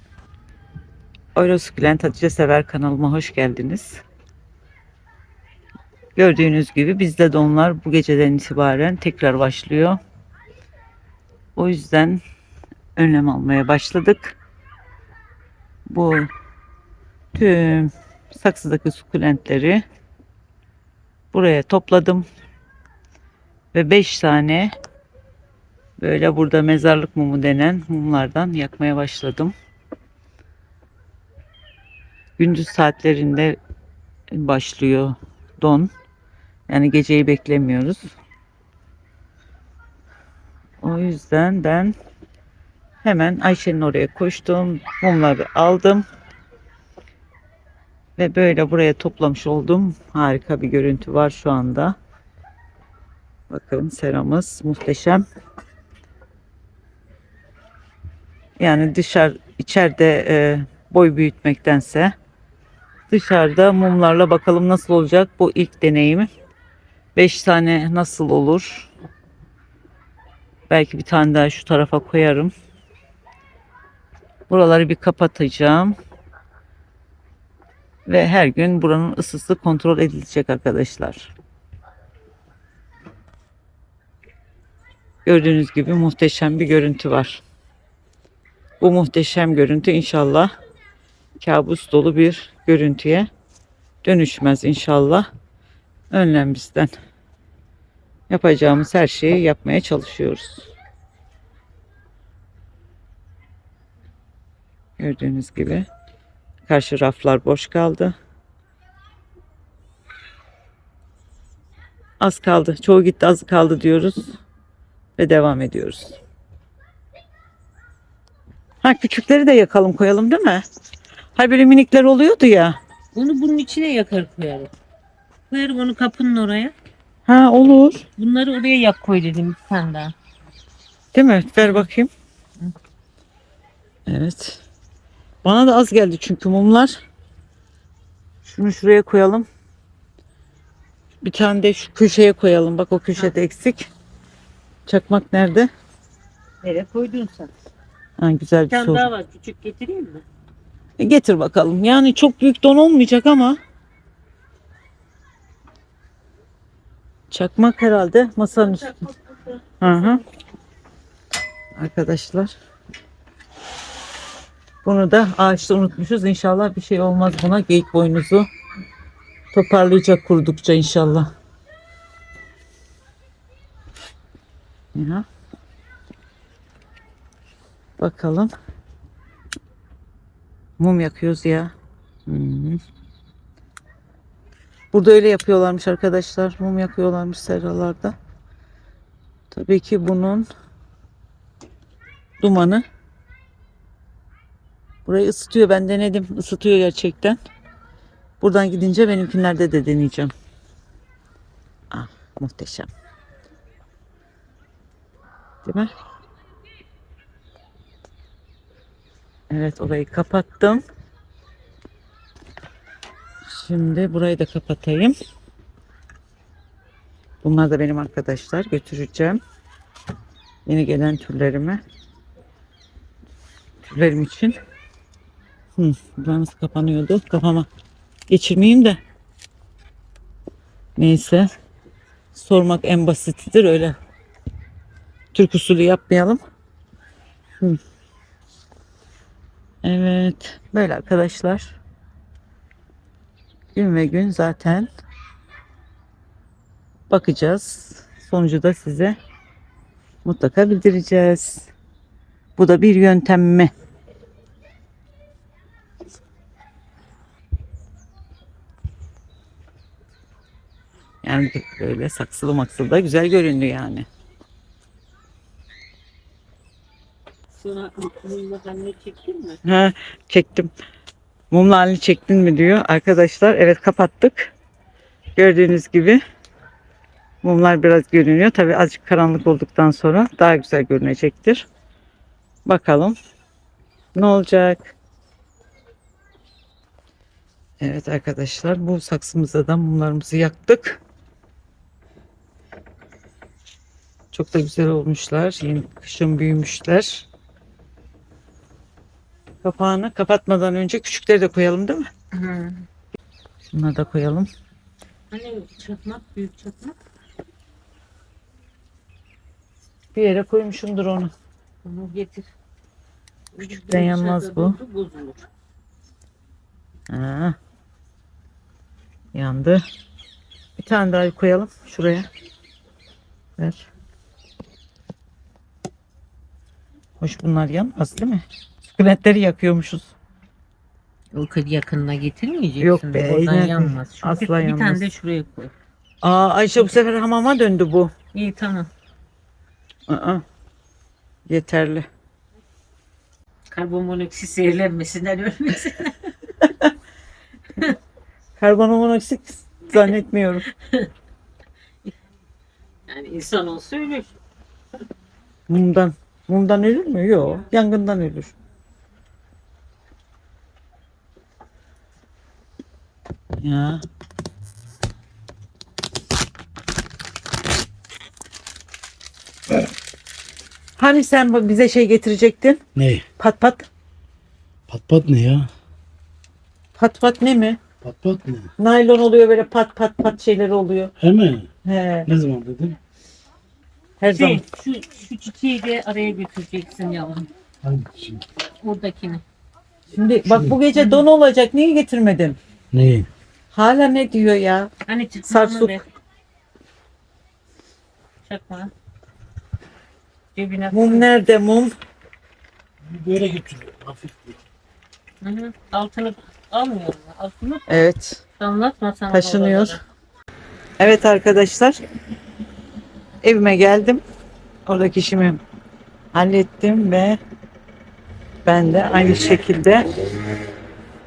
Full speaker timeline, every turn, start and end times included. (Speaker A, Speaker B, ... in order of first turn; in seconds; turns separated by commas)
Speaker A: 1.4-4.0, Speaker A: 6.2-10.0, Speaker A: 11.6-12.2, Speaker A: 13.0-14.4, Speaker A: 15.9-16.3, Speaker A: 17.4-19.8, Speaker A: 21.3-22.2, Speaker A: 23.7-24.7, Speaker A: 26.0-29.5, Speaker A: 32.4-33.6, Speaker A: 34.3-35.9, Speaker A: 36.7-38.1, Speaker A: 40.8-41.9, Speaker A: 43.0-46.0, Speaker A: 48.2-52.0, Speaker A: 53.5-55.2, Speaker A: 58.6-62.1, Speaker A: 63.1-66.3, Speaker A: 67.2-68.9, Speaker A: 70.7-72.5, Speaker A: 74.5-76.0, Speaker A: 78.1-81.3, Speaker A: 85.2-87.4, Speaker A: 88.8-90.5, Speaker A: 91.4-93.3, Speaker A: 94.0-95.3, Speaker A: 96.1-96.9, Speaker A: 98.3-100.7, Speaker A: 105.0-105.9, Speaker A: 106.7-108.2, Speaker A: 112.2-114.4, Speaker A: 115.2-116.2, Speaker A: 118.8-120.6, Speaker A: 121.4-122.8, Speaker B: 123.2-124.7, Speaker B: 125.5-126.7, Speaker A: 127.3-128.1, Speaker B: 128.2-130.2, Speaker A: 131.1-132.1, Speaker B: 131.6-131.9, Speaker A: 134.1-134.6, Speaker A: 135.4-137.0, Speaker A: 138.4-139.5, Speaker A: 141.2-143.9, Speaker A: 144.9-145.7, Speaker B: 146.6-147.5, Speaker A: 148.2-149.1, Speaker B: 148.7-150.2, Speaker A: 151.0-153.6, Speaker A: 157.3-159.1, Speaker A: 159.8-160.2, Speaker A: 161.8-162.5, Speaker A: 164.8-168.5, Speaker A: 169.5-171.3, Speaker A: 174.9-175.2, Speaker A: 178.0-178.5, Speaker A: 180.8-181.7, Speaker A: 182.3-182.8, Speaker A: 184.9-188.2, Speaker A: 189.5-190.5, Speaker A: 192.4-192.8, Speaker A: 195.1-197.4, Speaker A: 198.4-200.3, Speaker A: 201.9-202.9, Speaker A: 205.7-205.9, Speaker A: 209.5-210.8, Speaker A: 213.5-215.2, Speaker A: 217.4-219.4, Speaker A: 220.7-221.8, Speaker A: 223.9-224.6, Speaker A: 225.8-227.7, Speaker A: 228.3-229.0, Speaker A: 231.0-231.5, Speaker A: 232.3-234.0, Speaker A: 235.3-236.4, Speaker A: 239.8-241.8, Speaker A: 243.8-244.9, Speaker A: 247.1-249.2, Speaker A: 250.2-251.7, Speaker A: 252.6-253.7, Speaker A: 261.2-264.1, Speaker B: 267.6-269.6, Speaker A: 269.6-270.7, Speaker A: 271.5-274.5, Speaker A: 275.4-276.2, Speaker A: 277.4-281.7, Speaker A: 282.7-283.2, Speaker A: 284.1-284.9, Speaker A: 287.8-291.0, Speaker A: 294.3-297.3, Speaker A: 299.6-302.1, Speaker B: 302.3-302.9, Speaker A: 303.7-304.5, Speaker B: 305.3-307.0, Speaker A: 310.1-311.3, Speaker B: 311.8-312.5, Speaker B: 313.5-315.4, Speaker A: 313.7-314.8, Speaker A: 317.1-317.6, Speaker A: 319.3-319.8, Speaker A: 320.8-322.3, Speaker A: 323.6-323.9, Speaker A: 327.2-330.1, Speaker B: 331.3-335.7, Speaker A: 332.8-335.0, Speaker A: 336.2-338.1, Speaker B: 338.3-338.9, Speaker A: 340.1-340.4, Speaker A: 341.5-342.1, Speaker B: 343.7-346.4, Speaker A: 346.6-346.9, Speaker A: 348.6-350.7, Speaker B: 350.7-351.1, Speaker B: 353.1-354.3, Speaker A: 355.7-358.6, Speaker A: 363.6-364.0, Speaker A: 371.0-372.8, Speaker C: 373.0-373.2, Speaker A: 373.4-373.9, Speaker C: 374.9-375.7, Speaker A: 377.0-377.8, Speaker C: 378.0-378.7, Speaker A: 378.8-381.1, Speaker C: 381.2-381.7, Speaker A: 381.9-382.3, Speaker C: 382.3-383.0, Speaker A: 384.2-384.6, Speaker B: 384.2-387.5, Speaker C: 387.8-388.5, Speaker B: 388.6-389.4, Speaker A: 390.1-392.6, Speaker C: 392.9-393.3, Speaker A: 393.7-394.9, Speaker B: 395.1-396.0, Speaker A: 395.4-396.0, Speaker B: 398.5-398.9, Speaker B: 400.6-401.3, Speaker A: 400.9-401.9, Speaker C: 403.1-404.5, Speaker B: 405.4-408.0, Speaker A: 407.9-408.4, Speaker B: 408.6-410.0, Speaker A: 409.3-410.0, Speaker A: 411.0-412.0, Speaker A: 413.4-414.2, Speaker A: 414.9-415.6, Speaker A: 416.3-417.4, Speaker A: 418.7-420.0